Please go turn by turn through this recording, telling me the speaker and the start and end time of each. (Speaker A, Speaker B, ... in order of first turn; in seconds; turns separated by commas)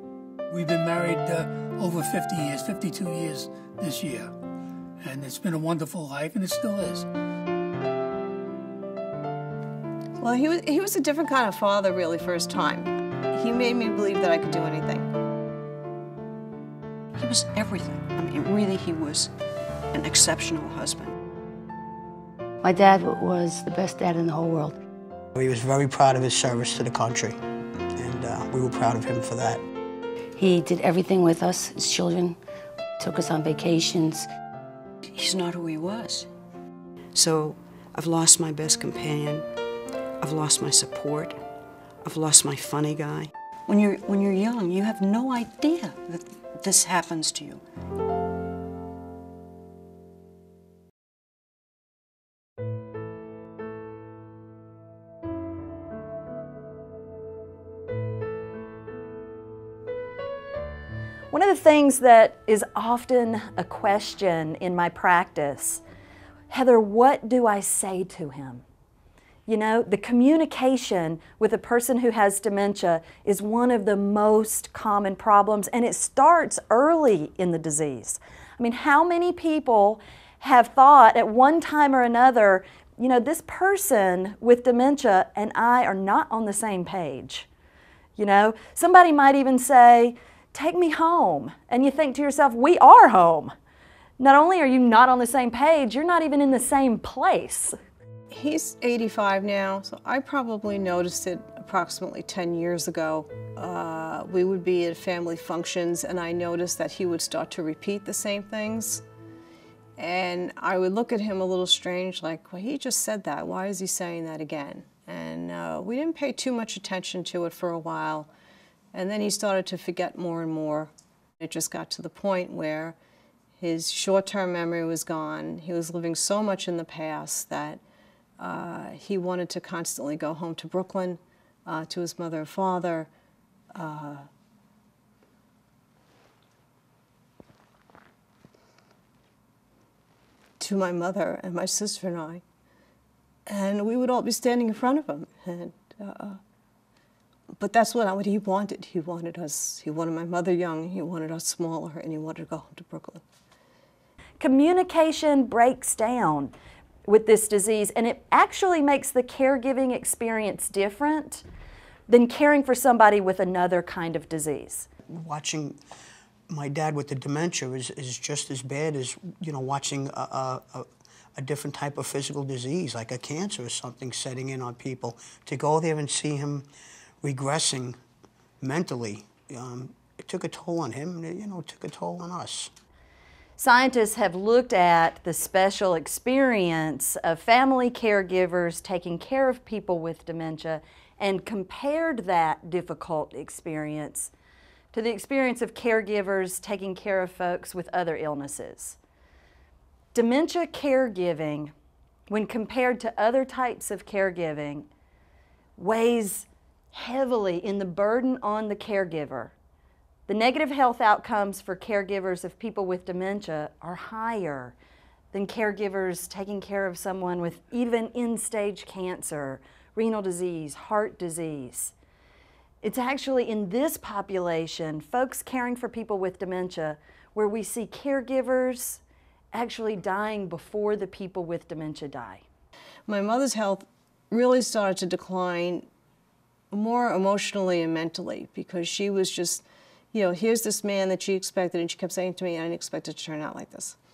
Speaker A: 0.5-4.3, Speaker A: 5.0-7.1, Speaker B: 10.2-15.1, Speaker C: 17.1-19.3, Speaker C: 19.9-21.1, Speaker D: 22.6-24.8, Speaker E: 25.3-27.4, Speaker E: 27.9-29.6, Speaker D: 30.4-32.4, Speaker D: 33.0-34.3, Speaker C: 35.0-36.3, Speaker C: 37.1-39.5, Speaker C: 40.2-41.4, Speaker C: 42.0-47.6, Speaker F: 61.3-65.8, Speaker F: 66.5-68.6, Speaker F: 69.5-87.5, Speaker F: 88.2-93.5, Speaker F: 94.2-97.7, Speaker B: 98.3-109.0, Speaker B: 110.0-118.3, Speaker B: 118.9-122.9, Speaker B: 123.6-127.8, Speaker B: 128.4-133.1, Speaker B: 133.7-134.2, Speaker B: 140.6-142.4, Speaker B: 143.5-146.4, Speaker B: 147.6-153.2, Speaker F: 154.4-156.5, Speaker F: 157.1-161.4, Speaker F: 162.1-164.9, Speaker E: 165.1-165.8, Speaker E: 166.5-176.7, Speaker E: 177.2-177.9, Speaker E: 178.6-182.7, Speaker F: 183.6-194.3, Speaker F: 194.9-199.0, Speaker F: 200.1-201.7, Speaker F: 202.3-204.9, Speaker F: 205.8-209.5, Speaker F: 210.3-214.8, Speaker F: 215.3-221.9, Speaker F: 222.8-229.0, Speaker F: 229.5-232.4, Speaker B: 233.1-235.9, Speaker B: 236.7-243.9